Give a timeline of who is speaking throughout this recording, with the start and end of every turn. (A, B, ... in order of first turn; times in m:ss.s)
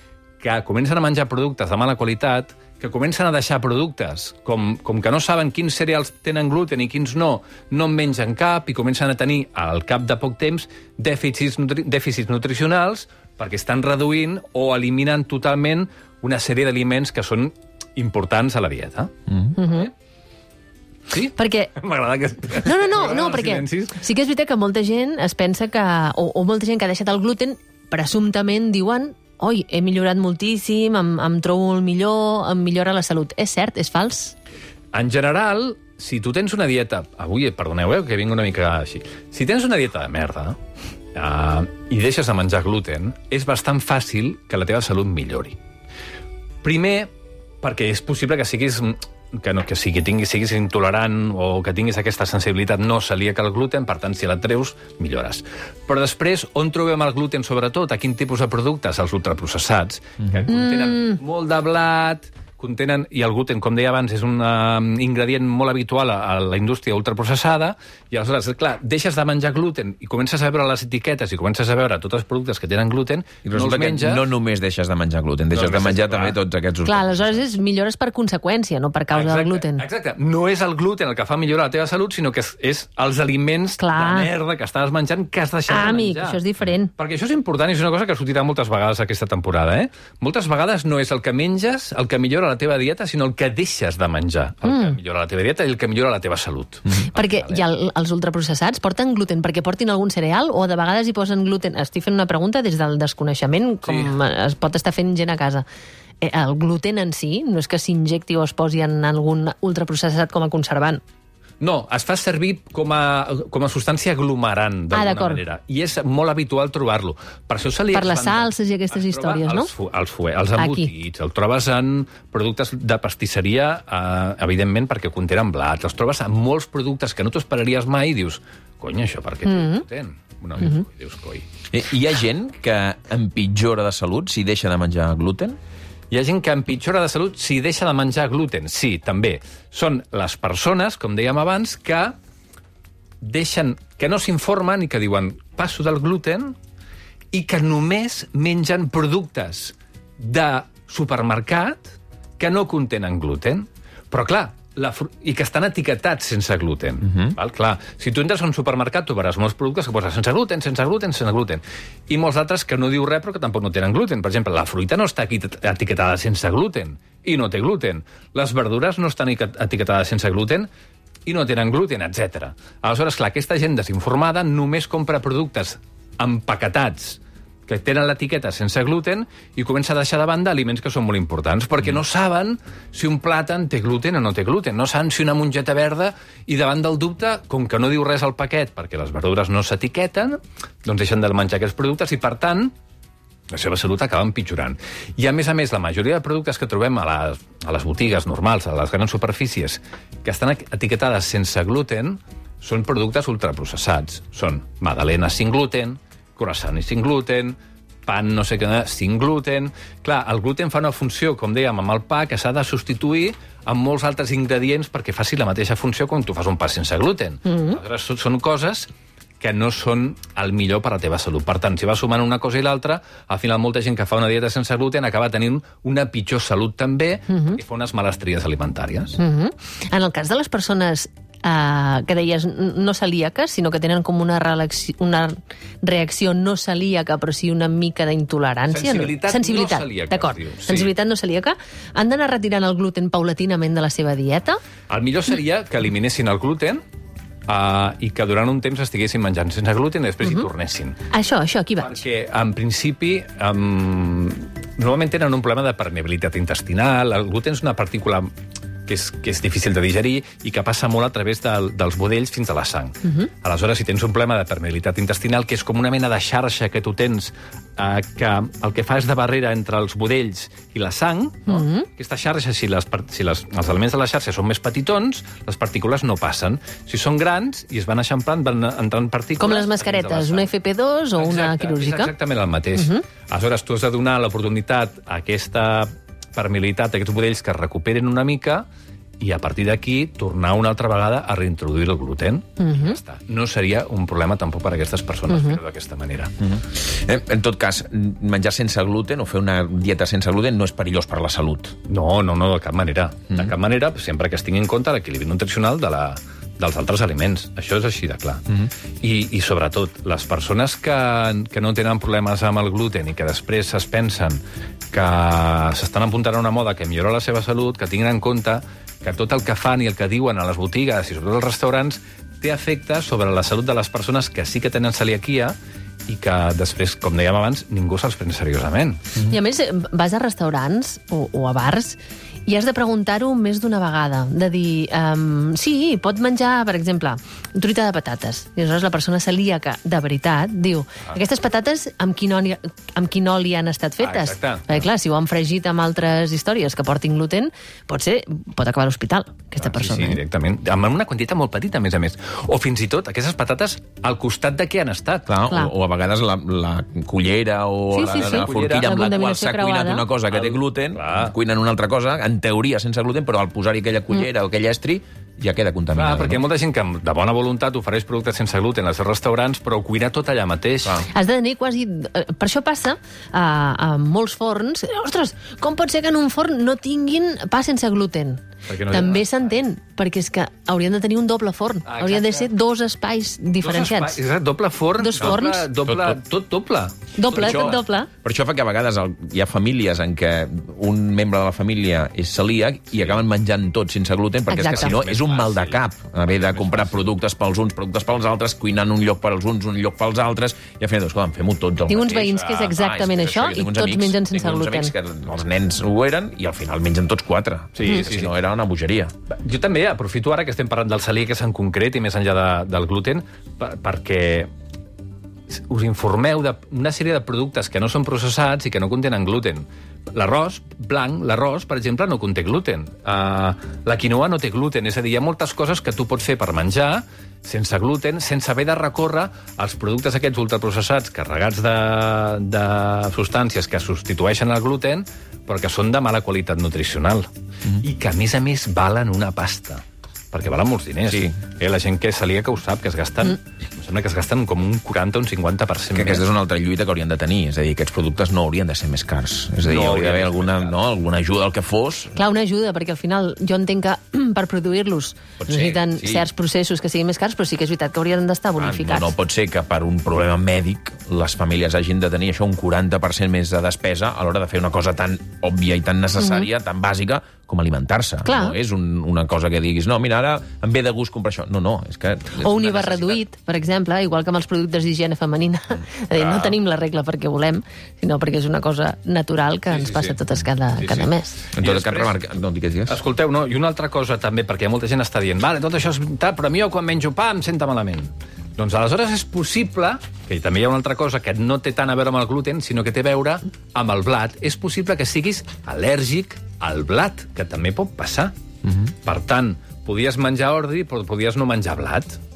0:00.4-0:19.9 A
0:19.6-0:19.9 B
0:21.1-0:24.0 A
0:21.4-0:21.7 B
0:22.6-0:34.4 B
0:34.9-0:40.6 A
0:41.2-0:45.6 A
0:46.6-0:47.1 A
0:47.6-1:14.3 A
1:00.5-1:01.2 B
1:13.4-1:17.4 C
1:15.5-1:16.4 A
1:16.8-1:19.8 B
1:19.1-1:37.6 A
1:23.8-1:24.3 B
1:25.7-1:26.9 B
1:34.6-1:35.0 B
1:37.1-1:45.7 B
1:43.8-1:44.2 A
1:46.2-1:51.0 B
1:51.6-2:11.5 A
1:54.9-1:55.4 B
1:57.9-1:59.7 B
2:00.6-2:00.9 B
2:09.4-2:09.8 B
2:11.7-2:15.6 C
2:16.1-2:22.2 A
2:23.2-2:26.6 A
2:27.3-2:50.7 A
2:37.0-2:37.4 C
2:51.2-3:12.7 A
3:13.5-3:38.9 A
3:37.5-3:37.8 B
3:39.4-3:49.2 A
3:47.3-3:47.6 B
3:49.2-4:04.6 B
3:58.7-4:00.9 A
4:04.9-4:06.8 A
4:07.5-4:11.0 A
4:11.1-4:12.0 B
4:11.8-4:18.3 A
4:18.9-4:40.5 A
4:23.0-4:23.3 B
4:31.5-4:31.9 B
4:39.4-4:42.1 B
4:41.2-4:48.7 A
4:42.7-4:43.1 B
4:49.2-4:56.3 A
4:52.6-4:53.0 B
4:55.3-4:55.6 B
4:56.4-5:01.8 C
5:01.9-5:08.4 A
5:09.0-5:14.4 A
5:14.9-5:25.6 A
5:26.1-5:29.0 A
5:29.2-5:50.2 B
5:44.0-5:44.8 A
5:49.6-5:55.3 A
5:55.3-6:06.4 C
5:57.9-6:00.1 B
5:58.1-5:58.9 A
6:00.3-6:01.4 A
6:06.0-6:11.1 A
6:11.1-6:24.2 B
6:18.6-6:19.5 A
6:21.9-6:22.5 A
6:23.6-6:27.8 A
6:25.0-6:25.7 B
6:25.2-6:26.2 C
6:27.1-6:28.1 B
6:27.3-6:49.1 C
6:32.9-6:33.2 A
6:34.5-6:35.0 B
6:34.7-6:37.1 A
6:41.9-6:44.9 B
6:47.8-6:48.3 A
6:49.4-6:54.5 A
6:55.5-7:26.2 A
7:21.1-7:21.4 C
7:25.9-7:32.2 C
7:29.6-7:30.8 A
7:32.1-7:39.1 B
7:35.4-7:36.2 C
7:38.6-7:53.2 C
7:46.2-7:46.5 B
7:48.2-7:48.6 B
7:52.4-8:01.4 B
7:52.7-7:53.1 A
7:56.1-7:56.6 A
7:59.7-8:00.2 A
8:00.8-8:02.2 A
8:01.6-8:03.0 C
8:02.9-8:18.4 A
8:19.0-8:22.2 A